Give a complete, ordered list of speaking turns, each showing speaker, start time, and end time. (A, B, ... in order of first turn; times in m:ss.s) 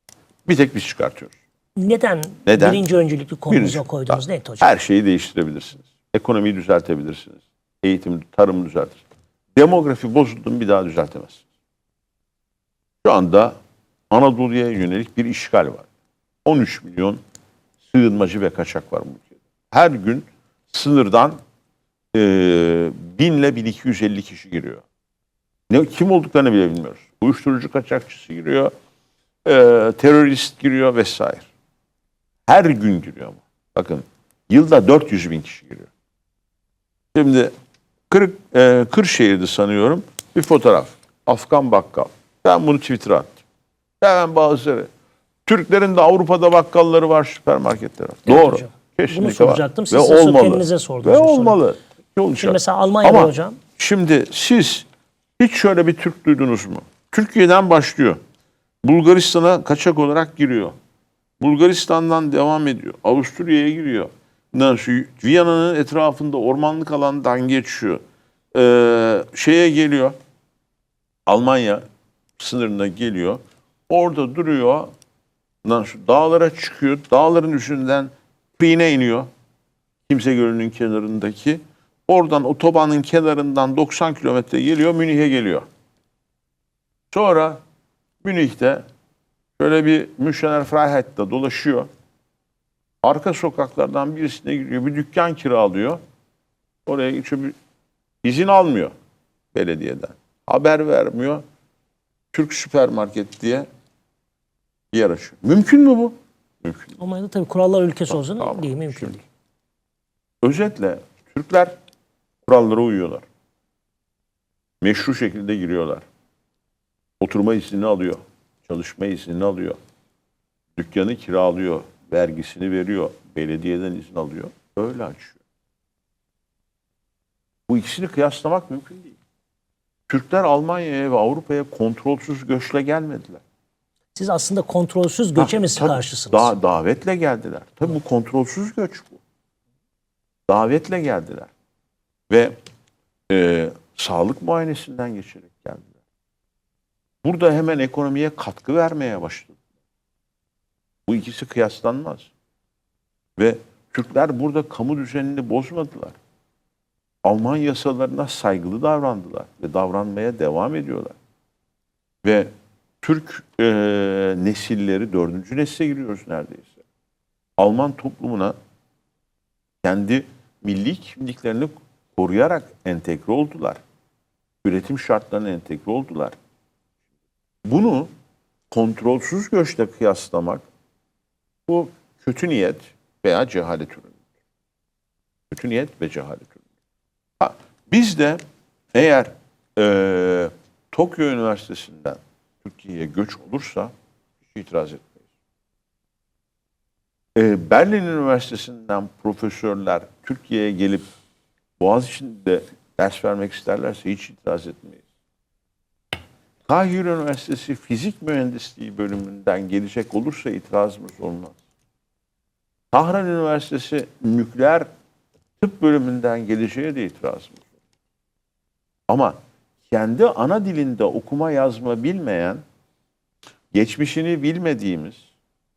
0:00.4-0:01.3 A
0:01.8-0:04.7 B
0:02.4-0:02.8 A
0:03.5-0:09.0 A
0:09.6-0:11.4 A
0:13.0-0:13.6 A
0:14.1-0:15.9 A
0:16.4-0:17.2 A
0:17.8-0:21.4 A
0:22.1-0:24.8 A
0:25.7-0:28.7 A
0:29.4-0:31.5 A
0:32.5-0:35.9 A
0:37.1-0:37.5 A
0:38.1-0:43.4 A
0:44.0-0:44.9 A
0:45.4-0:54.8 A
0:48.2-0:51.6 B
0:52.4-0:53.6 B
0:55.4-0:58.2 A
0:58.8-1:00.7 A
1:01.4-1:08.0 A
1:08.5-1:10.2 A
1:11.3-1:11.8 A
1:12.4-1:14.9 A
1:15.6-1:19.3 A
1:20.1-1:25.6 A
1:27.1-1:27.6 A
1:28.2-1:28.8 A
1:29.6-1:31.9 A
1:33.0-1:36.0 A
1:36.8-1:37.6 A
1:38.2-1:38.9 A
1:39.5-1:41.4 A
1:42.3-1:43.7 A
1:44.9-1:47.0 A
1:47.0-1:49.2 B
1:48.1-1:49.2 A
1:50.4-1:51.7 A
1:52.4-1:53.2 A
1:54.8-1:56.0 A
1:57.2-1:59.8 A
2:00.8-2:05.4 A
2:07.7-2:09.2 A
2:10.1-2:13.4 A
2:14.1-2:16.5 B
2:15.3-2:19.2 A
2:20.5-2:21.5 A
2:22.3-2:22.5 A
2:23.3-2:26.0 A
2:27.2-2:29.6 A
2:31.1-2:32.3 A
2:33.4-2:36.2 A
2:37.2-2:41.2 A
2:42.2-2:42.5 A
2:43.0-2:46.8 A
2:47.6-2:48.5 A
2:49.8-2:53.8 A
2:54.6-2:56.3 A
2:57.6-2:58.1 A
2:58.7-3:00.6 A
3:01.7-3:04.2 A
3:05.5-3:06.6 A
3:07.4-3:08.4 A
3:08.9-3:13.9 A
3:14.4-3:15.2 A
3:17.3-3:21.0 A
3:21.8-3:25.0 A
3:26.6-3:31.6 A
3:32.9-3:34.9 A
3:35.6-3:37.6 A
3:39.1-3:39.4 A
3:39.9-3:42.6 A
3:43.7-3:45.2 A